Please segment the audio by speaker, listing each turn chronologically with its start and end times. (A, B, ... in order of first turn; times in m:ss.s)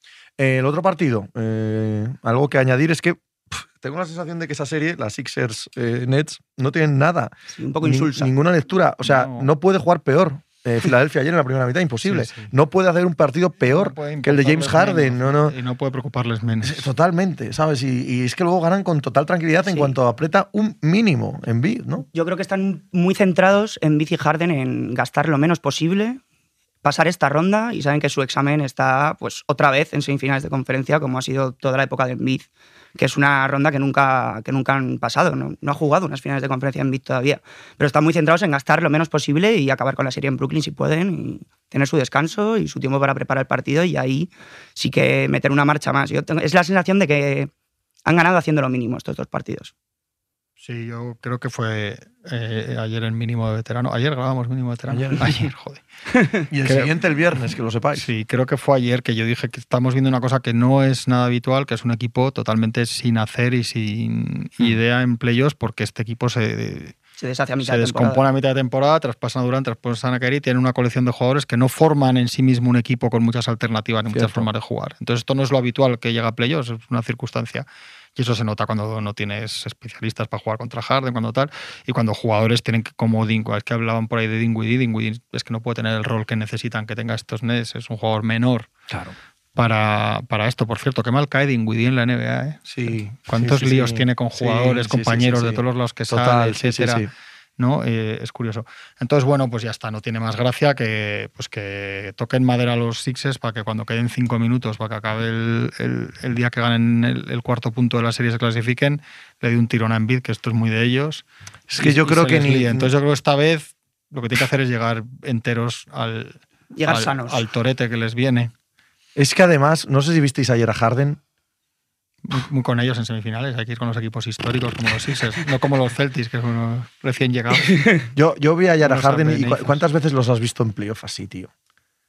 0:00.4-0:15.6 A
0:07.5-0:08.3 B
0:09.0-0:09.5 C
0:12.0-0:12.5 C
0:13.6-0:16.9 C
0:16.6-0:22.1 A
0:19.6-0:19.9 B
0:22.1-0:26.2 B
0:26.8-0:47.5 B
0:48.0-0:49.7 B
0:50.6-0:55.8 C
0:54.9-0:55.5 A
0:56.5-0:58.1 A
0:56.6-0:56.9 C
0:58.0-1:07.0 C
1:07.2-1:08.2 B
1:07.6-1:28.7 C
1:14.1-1:14.5 A
1:28.9-1:29.2 A
1:29.6-1:37.1 C
1:32.7-1:37.1 A
1:37.6-1:51.2 C
1:51.7-1:52.9 A
1:51.8-1:58.5 C
1:56.7-1:57.4 B
1:59.2-2:01.2 A
2:02.2-2:08.0 C
2:08.2-2:11.5 A
2:08.8-2:09.8 C